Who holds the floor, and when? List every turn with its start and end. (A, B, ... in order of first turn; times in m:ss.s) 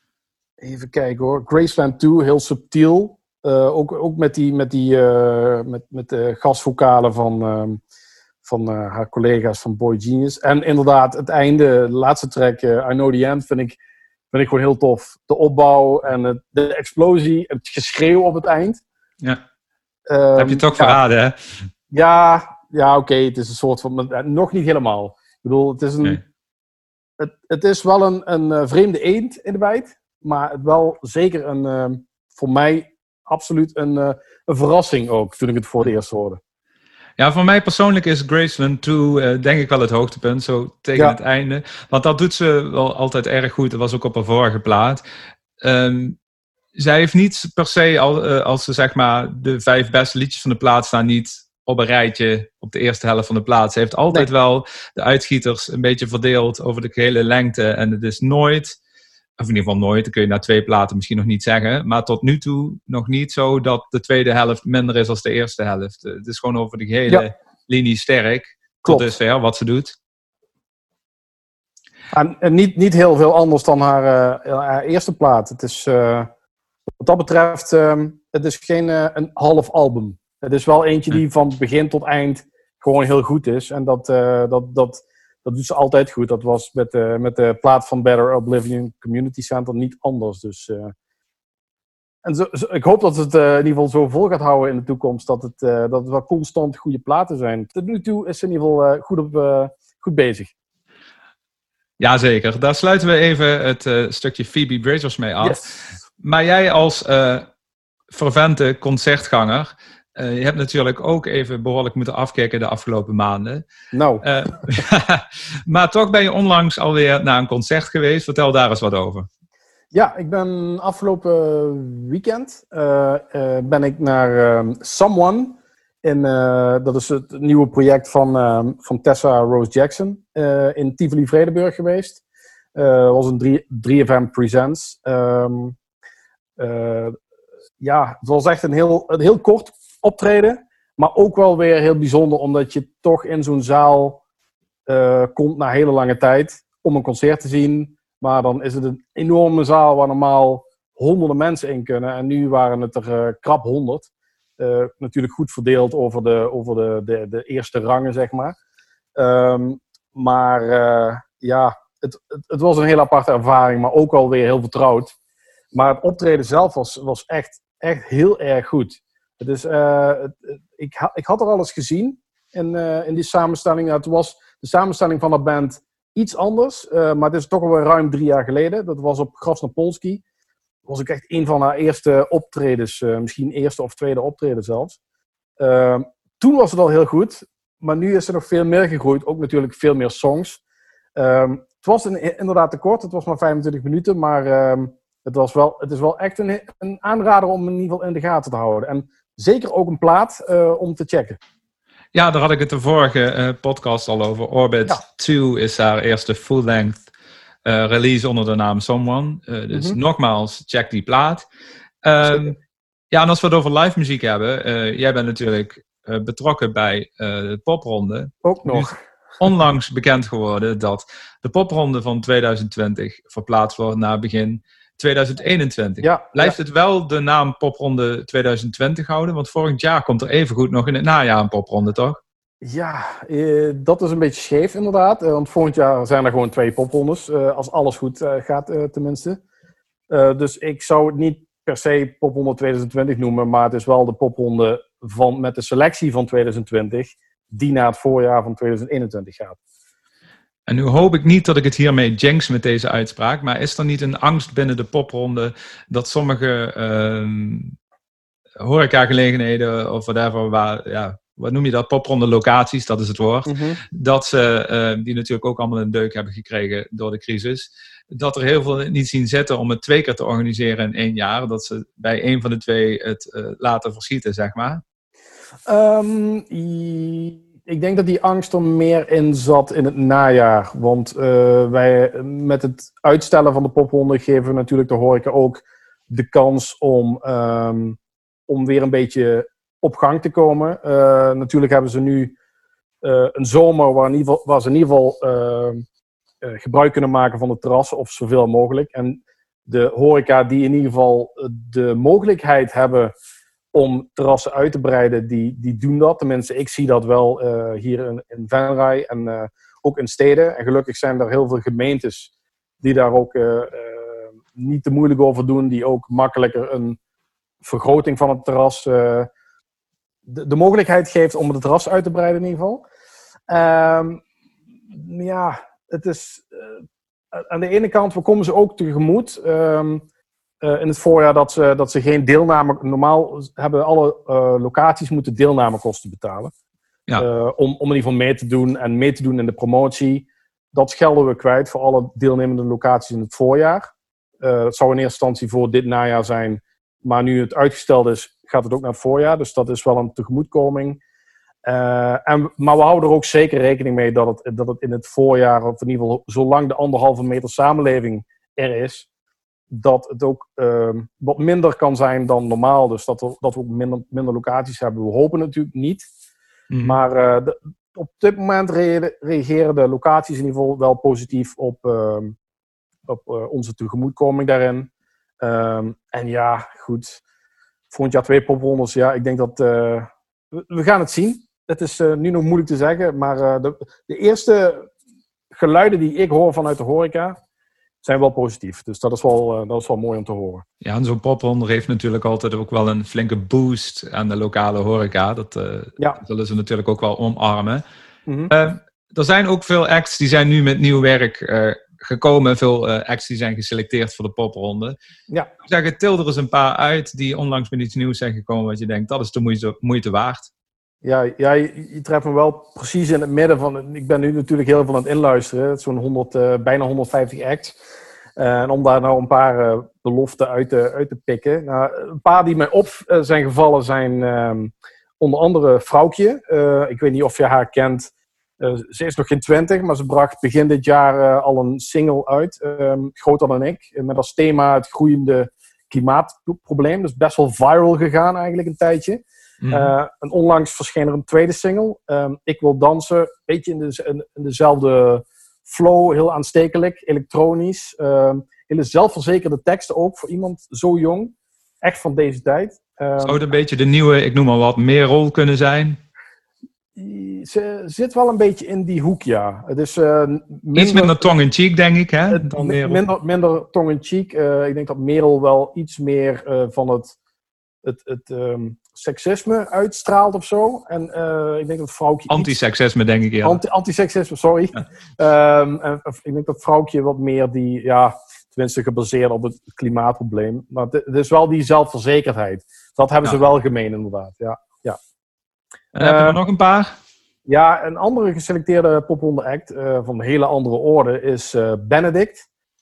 0:00.6-0:07.8 A
0:08.4-0:13.8 A
0:14.3-0:18.8 A
0:20.1-0:21.0 A
0:20.4-0:21.4 B
0:21.9-0:26.2 A
0:27.2-0:36.4 A
0:37.2-0:45.0 B
0:45.6-0:46.2 B
0:46.8-0:58.8 B
0:59.4-1:10.0 B
1:08.8-1:09.1 A
1:12.1-1:16.3 A
1:17.0-1:30.9 A
1:32.2-1:40.5 A
1:42.0-1:47.5 B
1:45.4-1:45.7 A
1:48.1-1:53.6 B
1:53.9-1:54.2 A
1:54.2-1:59.3 B
1:59.9-2:12.2 A
2:12.7-2:15.8 A
2:16.6-2:17.1 A
2:17.8-2:24.2 A
2:24.9-2:38.6 A
2:39.2-2:45.1 A
2:45.7-3:00.2 A
3:00.8-3:05.0 A
3:05.6-3:10.6 A
3:11.1-3:21.4 A
3:22.1-3:27.1 B
3:27.6-3:31.4 B
3:32.0-3:32.6 B
3:33.1-3:52.2 B
3:38.4-3:39.0 A
3:46.0-3:46.6 A
3:52.6-3:59.4 A
4:00.1-4:09.6 A
4:10.7-4:17.8 B
4:18.6-4:34.8 B
4:23.4-4:23.8 A
4:35.7-4:52.3 A
4:53.0-4:55.8 A
4:56.4-5:03.1 A
5:03.7-5:17.0 A
5:17.6-5:19.3 A
5:20.3-5:22.8 A
5:23.5-5:24.2 A
5:24.9-5:26.8 A
5:27.3-5:30.0 A
5:30.6-5:36.5 A
5:37.2-5:51.0 A
5:51.6-5:59.0 A
5:59.7-6:06.1 A
6:06.7-6:07.0 B
6:06.8-6:12.3 A
6:13.1-6:14.9 A
6:15.4-6:17.2 A
6:17.9-6:24.9 A
6:25.5-6:27.4 A
6:28.0-6:30.6 A
6:30.8-6:37.8 B
6:38.3-6:38.5 A
6:38.5-6:45.0 B
6:45.6-6:50.5 B
6:51.0-6:57.8 A
6:58.4-7:08.1 A
7:08.6-7:33.4 A
7:19.6-7:19.9 B
7:33.2-7:36.0 B
7:37.0-7:41.3 A
7:40.7-7:43.0 B
7:42.3-7:47.1 A
7:47.8-7:52.5 A
7:52.3-7:53.6 B
7:53.4-8:05.0 A
8:05.9-8:06.9 B
8:06.0-8:06.4 A
8:07.4-8:12.4 A